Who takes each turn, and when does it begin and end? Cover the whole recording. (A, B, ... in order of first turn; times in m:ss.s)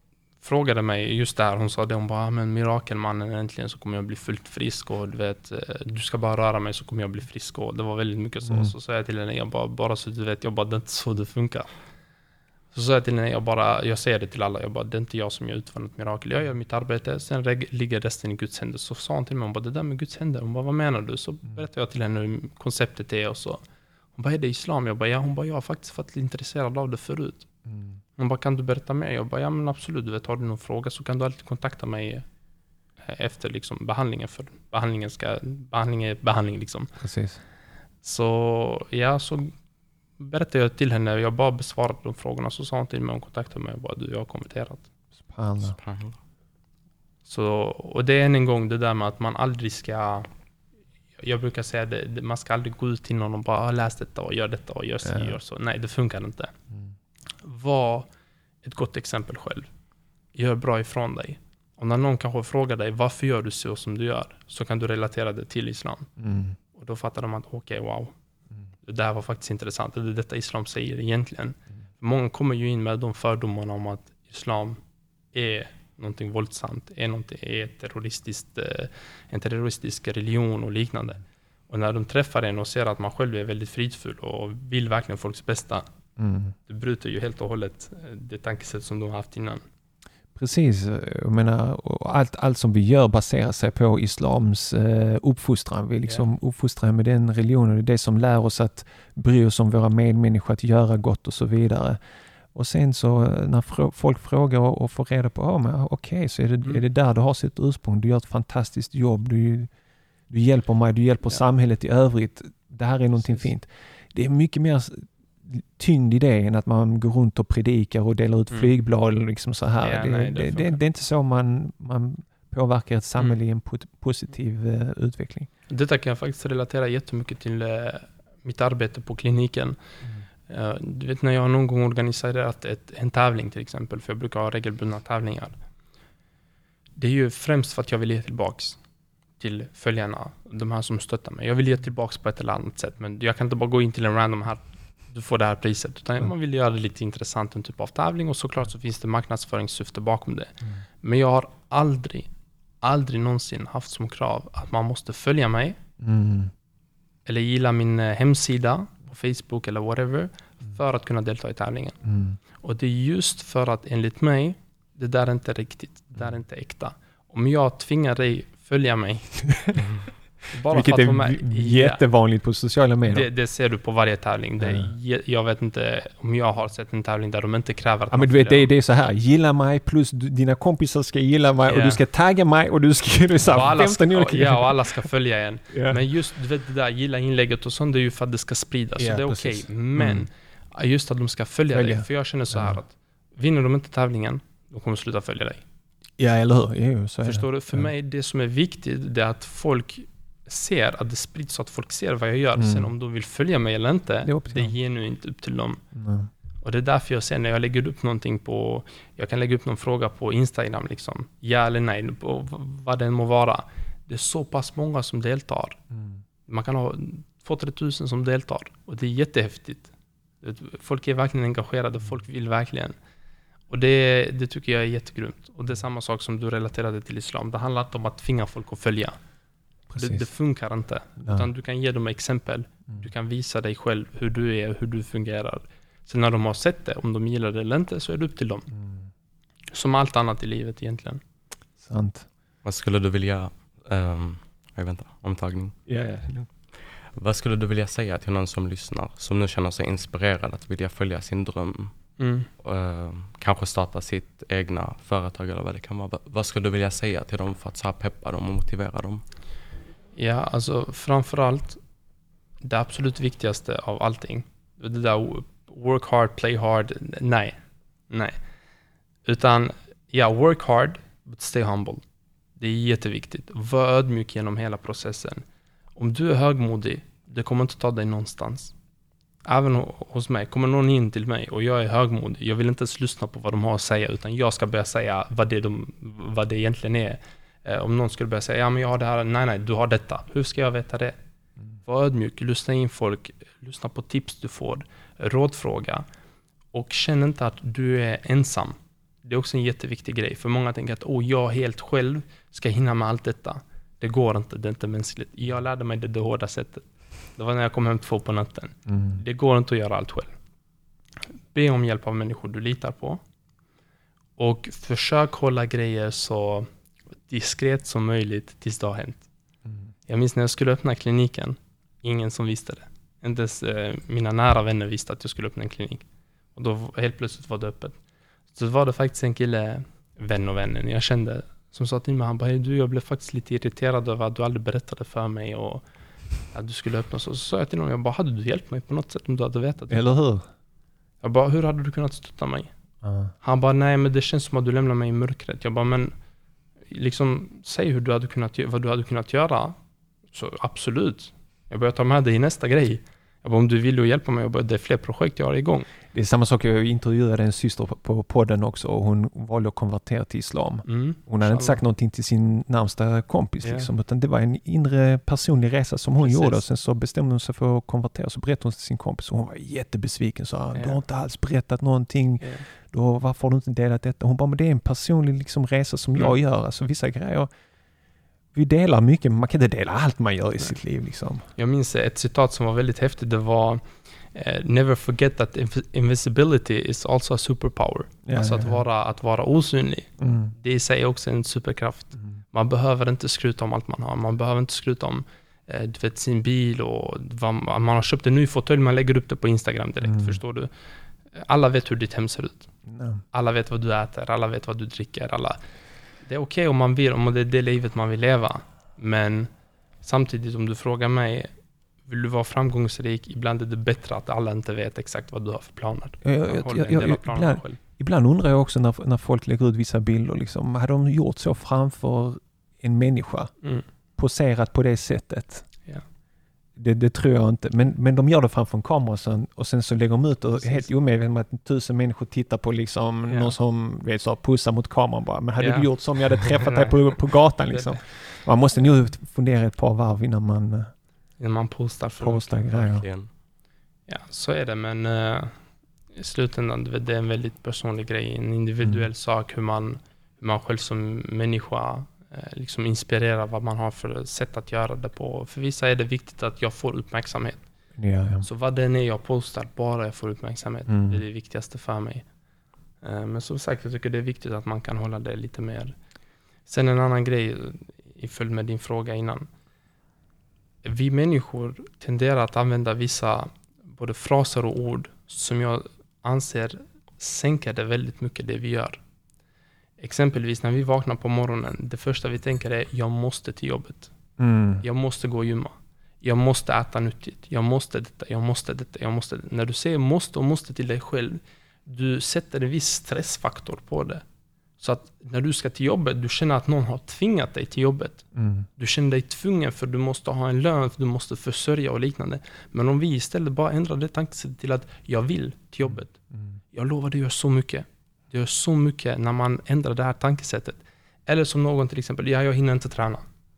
0:00.4-0:11.7 A
0:08.4-0:08.7 B
0:12.7-0:23.6 A
0:24.1-0:27.5 A
0:27.7-0:28.0 B
0:28.2-0:32.2 A
0:33.0-0:36.9 A
0:37.0-0:37.4 B
0:38.0-0:39.5 A
0:40.2-0:44.8 A
0:45.2-0:45.8 B
0:45.8-0:46.2 C
0:47.2-0:50.3 A
0:51.2-0:56.5 A
0:55.0-0:55.4 B
0:57.4-0:58.1 A
0:58.6-0:59.7 A
1:00.3-1:06.1 A
1:06.2-1:06.6 B
1:06.7-1:08.1 A
1:08.8-1:14.8 A
1:15.3-1:25.9 A
1:26.2-1:26.5 B
1:26.7-1:29.6 A
1:30.3-1:42.0 B
1:42.5-1:49.7 B
1:50.3-2:05.5 B
1:59.8-2:00.8 A
2:05.7-2:09.8 A
2:10.5-2:15.6 A
2:17.0-2:18.8 A
2:19.4-2:32.3 A
2:32.8-2:35.8 A
2:36.0-2:36.5 B
2:37.2-2:42.0 A
2:42.0-2:42.4 B
2:42.6-2:49.8 A
2:50.5-2:52.0 A
2:50.7-2:53.3 B
2:53.1-2:58.7 A
2:54.6-2:54.9 B
2:58.1-3:05.0 B
3:01.7-3:02.0 A
3:03.5-3:15.6 A
3:05.7-3:06.0 B
3:09.0-3:10.3 B
3:11.7-3:12.8 B
3:16.2-3:17.9 B
3:17.2-3:25.8 A
3:22.6-3:22.9 B
3:24.2-3:24.7 B
3:25.9-3:26.3 B
3:26.6-3:35.8 A
3:35.9-3:36.2 B
3:36.5-3:39.9 A
3:40.4-3:42.9 A
3:43.7-3:49.2 A
3:49.9-3:50.2 B
3:50.0-3:58.7 A
3:58.7-3:59.1 B
3:59.7-4:01.2 A
4:01.8-4:02.3 B
4:02.6-4:05.8 C
4:05.9-4:06.5 B
4:07.1-4:11.9 C
4:12.2-4:12.5 A
4:12.6-4:19.2 C
4:20.2-4:21.8 A
4:22.6-4:27.6 A
4:28.1-4:28.4 A
4:29.2-4:32.0 A
4:32.6-4:35.4 A
4:36.0-4:38.7 A
4:39.4-4:51.1 A
4:51.8-4:56.0 A
4:56.7-5:10.3 A
5:08.9-5:09.2 B
5:11.5-5:13.2 A
5:14.4-5:16.7 A
5:17.3-5:19.2 A
5:19.6-5:19.9 B
5:20.1-5:26.0 A
5:26.5-5:28.0 A
5:28.5-5:35.8 A
5:36.5-5:40.0 A
5:39.9-5:40.5 B
5:41.2-5:42.7 A
5:43.0-5:43.3 B
5:43.4-5:46.1 A
5:46.9-5:49.8 A
5:50.3-5:55.9 A
5:56.1-6:17.5 B
6:00.8-6:01.8 A
6:03.6-6:03.9 A
6:06.2-6:06.6 A
6:10.7-6:11.0 A
6:18.5-6:21.5 B
6:21.6-6:40.7 A
6:28.2-6:28.8 B
6:30.2-6:30.5 B
6:40.0-6:40.4 B
6:41.3-6:42.7 A
6:42.9-6:43.2 B
6:43.3-6:45.6 A
6:46.2-6:49.5 A
6:50.0-6:51.5 A
6:52.0-6:57.8 A
6:56.2-7:03.5 B
7:04.2-7:05.6 B
7:06.8-7:20.9 B
7:10.6-7:10.9 A
7:13.3-7:13.5 A
7:15.6-7:17.1 A
7:17.7-7:18.0 A
7:21.4-7:22.6 A
7:22.2-7:23.0 B
7:22.7-7:23.3 C
7:24.1-7:25.6 A
7:26.1-7:37.6 A
7:38.0-7:38.4 B
7:38.4-7:42.2 A
7:40.9-7:41.2 B
7:43.0-7:45.9 A
7:46.7-7:49.5 A
7:50.8-7:59.0 A
8:00.0-8:04.1 A
8:04.4-8:04.8 B
8:04.8-8:14.2 A
8:14.8-8:26.1 A
8:18.3-8:18.7 B
8:25.8-8:26.6 B
8:26.7-8:33.2 A